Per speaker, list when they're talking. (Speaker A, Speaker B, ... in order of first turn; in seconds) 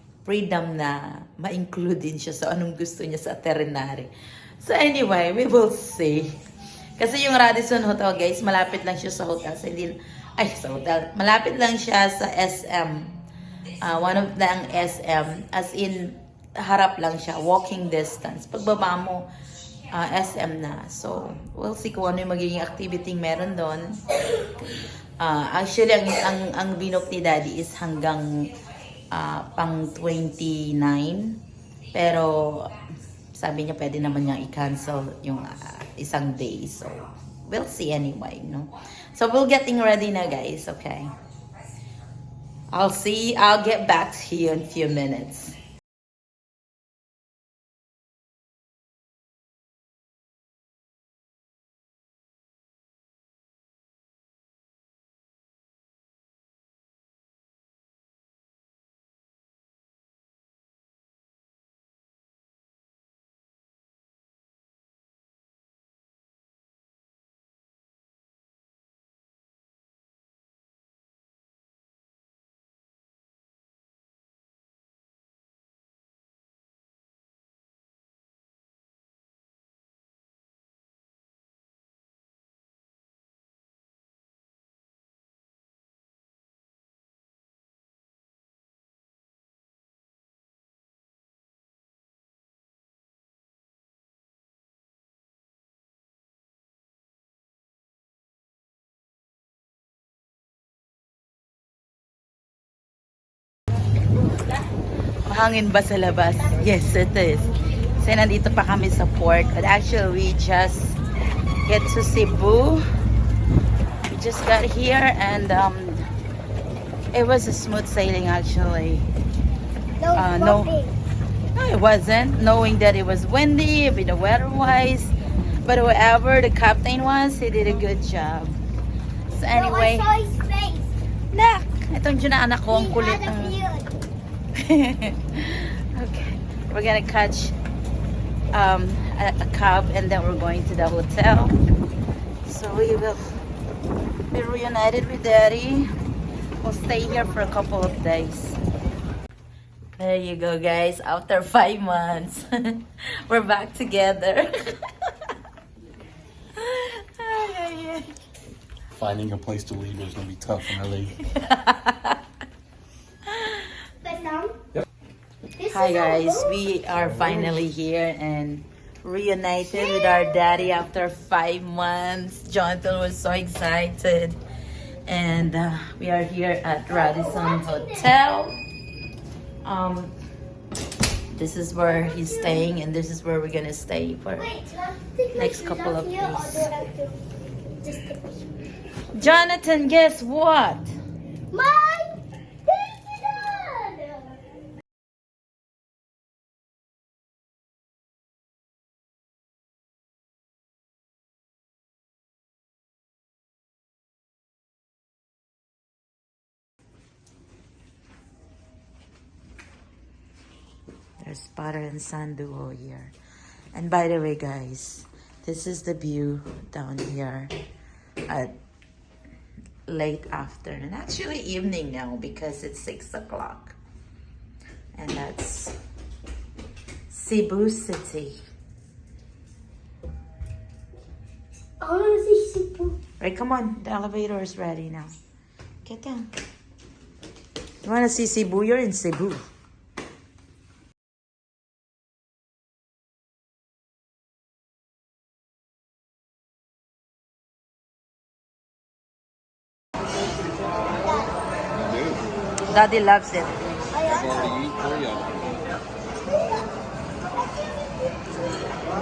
Speaker A: 0.2-6.3, 7.0-13.1, 13.8-19.2, 19.9-28.3, 29.1-31.4, 31.9-32.7, 33.3-41.1, 42.7-45.6, 105.3-111.0, 111.7-112.8, 114.1-116.0, 117.1-119.1, 120.1-120.7, 121.5-128.6, 129.3-130.1, 131.3-133.6, 134.6-137.6, 138.5-141.6, 142.4-143.2, 144.3-145.9, 146.6-148.6, 150.0-155.3, 156.6-158.1, 161.2-162.2, 163.2-163.8, 165.7-174.4, 175.1-178.6, 179.7-180.1, 181.3-184.5, 185.3-186.7, 189.1-190.9, 211.2-213.1, 213.7-217.5, 219.9-223.8, 225.0-225.8, 227.1-228.4, 233.2-235.2, 235.8-236.3, 237.8-239.4, 252.7-253.6
Speaker B: 120.0-121.0, 129.5-130.9, 132.7-133.9, 164.0-164.6, 165.6-166.5, 169.9-170.3, 176.9-178.1, 181.9-182.7, 184.4-187.2, 187.8-188.5, 191.5-192.1, 192.7-194.4, 231.8-233.0, 253.9-254.4
Speaker C: 159.0-161.2, 251.8-252.3, 254.1-255.6